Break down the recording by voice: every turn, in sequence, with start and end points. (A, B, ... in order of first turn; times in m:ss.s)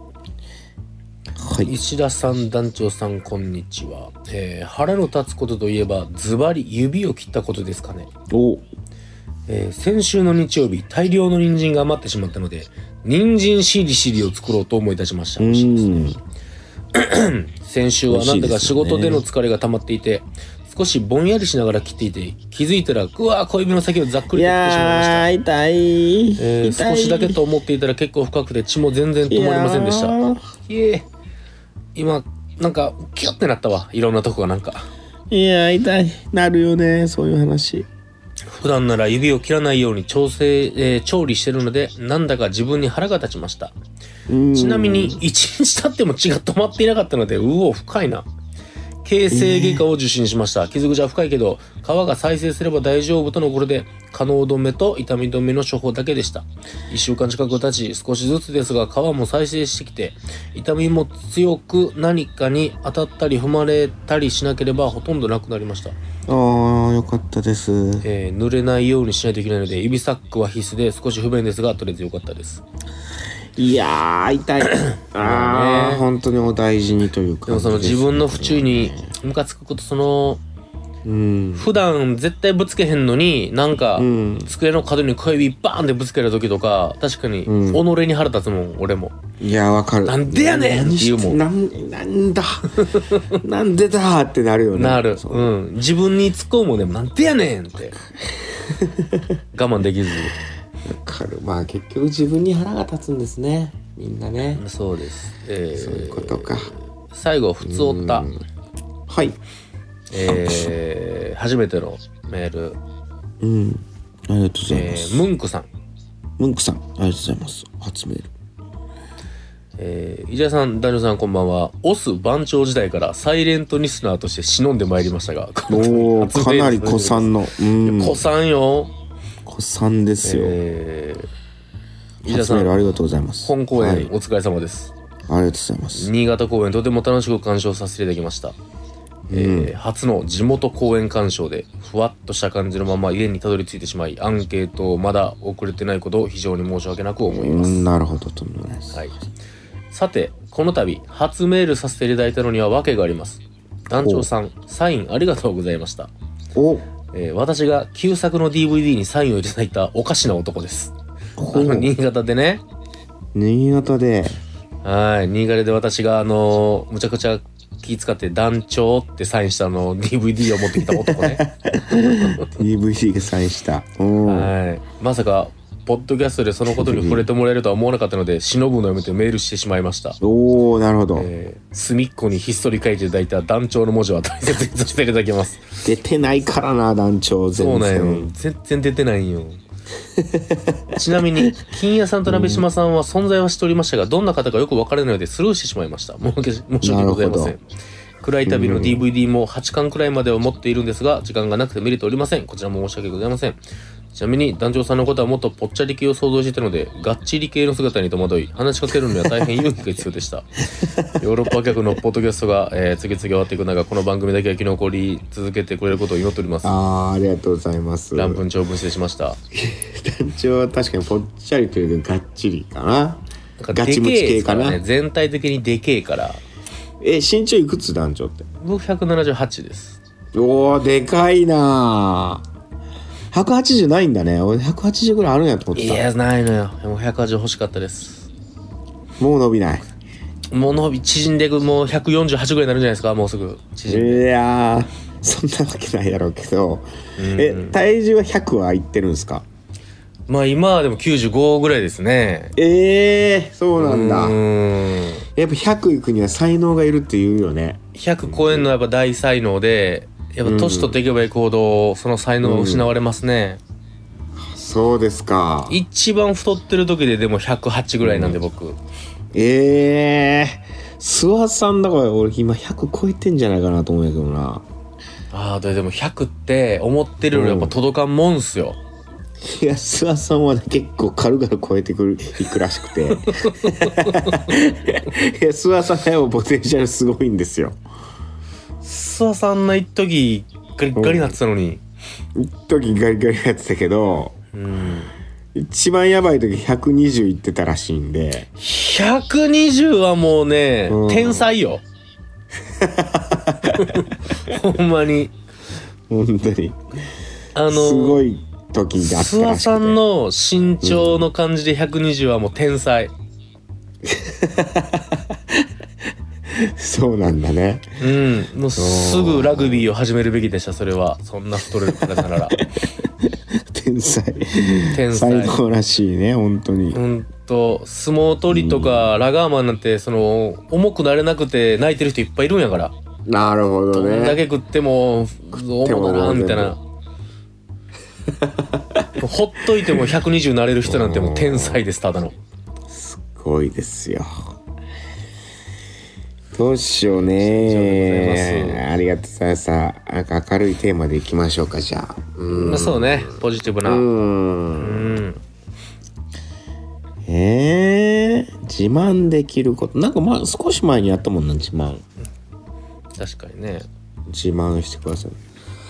0:01.4-0:01.8 A
0:01.6-0:08.1 B
0:08.3-0:08.7 A
0:09.5-0:15.9 B
0:15.4-0:16.2 A
0:16.9-0:25.3 B
0:18.1-0:19.2 A
0:24.3-0:27.4 A
0:26.4-0:30.2 B
0:29.3-0:30.4 A
0:30.7-0:31.0 B
0:32.0-0:34.9 B
0:35.3-0:37.9 A
0:38.5-0:43.7 B
0:44.3-0:45.2 A
0:44.5-0:48.3 B
0:49.0-1:06.0 B
0:49.3-0:49.8 A
1:06.3-1:08.0 A
1:08.0-1:12.6 B
1:13.6-1:19.1 A
1:14.8-1:16.0 B
1:17.5-1:20.4 B
1:21.0-1:21.7 A
1:21.6-1:29.2 B
1:24.0-1:24.5 A
1:27.5-1:27.8 A
1:29.4-1:35.5 A
1:30.0-1:31.4 B
1:32.8-1:33.3 B
1:34.7-1:38.0 B
1:38.1-1:39.4 A
1:39.5-1:40.4 B
1:40.8-1:44.6 A
1:44.6-1:48.3 B
1:45.7-1:46.7 A
1:47.6-1:48.4 A
1:49.1-1:49.4 A
1:50.1-1:52.8 B
1:50.2-1:50.7 A
1:53.4-1:55.3 A
1:54.7-1:55.7 B
1:56.4-1:58.3 A
1:59.8-2:07.3 B
2:05.7-2:08.2 A
2:07.8-2:08.9 B
2:09.5-2:10.6 A
2:10.2-2:11.3 B
2:12.2-2:14.9 B
2:12.2-2:14.1 A
2:15.3-2:16.1 A
2:15.9-2:18.6 B
2:19.3-2:19.7 A
2:19.3-2:27.9 B
2:27.3-2:29.2 A
2:29.9-2:36.1 B
2:33.9-2:34.3 A
2:36.6-2:36.9 A
2:37.1-2:40.9 B
2:41.4-2:41.9 A
2:41.5-2:42.6 B
2:43.3-2:44.4 A
2:44.8-2:51.4 B
2:50.8-2:54.5 A
2:52.1-2:52.5 B
2:54.3-3:00.2 B
2:56.7-2:57.3 A
3:00.2-3:01.3 A
3:01.2-3:05.7 B
3:05.8-3:08.3 A
3:07.6-3:09.6 B
3:10.2-3:10.8 A
3:10.9-3:17.6 B
3:12.3-3:12.6 A
3:16.8-3:17.6 A
3:18.2-3:23.6 B
3:18.4-3:19.0 A
3:24.1-3:30.6 B
3:30.8-3:31.1 A
3:31.2-3:36.7 B
3:36.6-3:38.4 A
3:38.2-3:39.4 B
3:39.5-3:44.8 A
3:43.6-3:46.4 B
3:47.0-3:48.5 A
3:48.6-3:50.0 B
3:50.4-3:52.4 A
3:53.3-3:56.0 A
3:55.8-3:58.3 B
3:59.2-3:59.9 A
4:00.5-4:04.3 B
4:03.9-4:09.4 A
4:07.2-4:07.8 B
4:10.3-4:12.6 B
4:12.6-4:14.4 A
4:13.8-4:15.2 B
4:15.4-4:18.7 A
4:18.0-4:23.6 B
4:20.4-4:21.0 A
4:22.4-4:22.9 A
4:24.4-4:25.8 A
4:25.7-4:28.8 B
4:28.0-4:28.4 A
4:29.3-4:34.6 A
4:35.3-4:38.8 B
4:37.3-4:37.8 A
4:39.4-4:47.8 A
4:43.3-4:44.5 B
4:48.8-4:51.8 B
4:51.0-4:51.4 A
4:52.4-4:54.4 A
4:54.5-4:55.1 B
4:55.5-4:58.5 A
4:58.6-5:01.8 B
5:00.9-5:01.5 A
5:02.7-5:04.5 A
5:03.7-5:05.3 B
5:06.1-5:06.8 A
5:07.6-5:08.2 B
5:07.7-5:10.0 A
5:09.0-5:13.1 B
5:10.8-5:11.2 A
5:14.0-5:15.7 A
5:16.5-5:17.9 A
5:18.0-5:22.6 B
5:18.8-5:19.9 A
5:22.0-5:27.0 A
5:24.9-5:25.6 B
5:26.9-5:32.9 B
5:28.5-5:29.1 A
5:33.3-5:34.4 A
5:33.9-5:36.8 B
5:35.5-5:36.8 A
5:38.3-5:39.1 A
5:39.2-5:42.4 B
5:40.8-5:41.8 A
5:42.9-5:44.5 A
5:46.5-5:55.2 A
5:47.1-5:48.8 B
5:52.5-5:54.1 B
5:54.8-5:55.4 B
5:57.2-6:02.0 A
6:03.2-6:03.9 B
6:04.3-6:05.4 A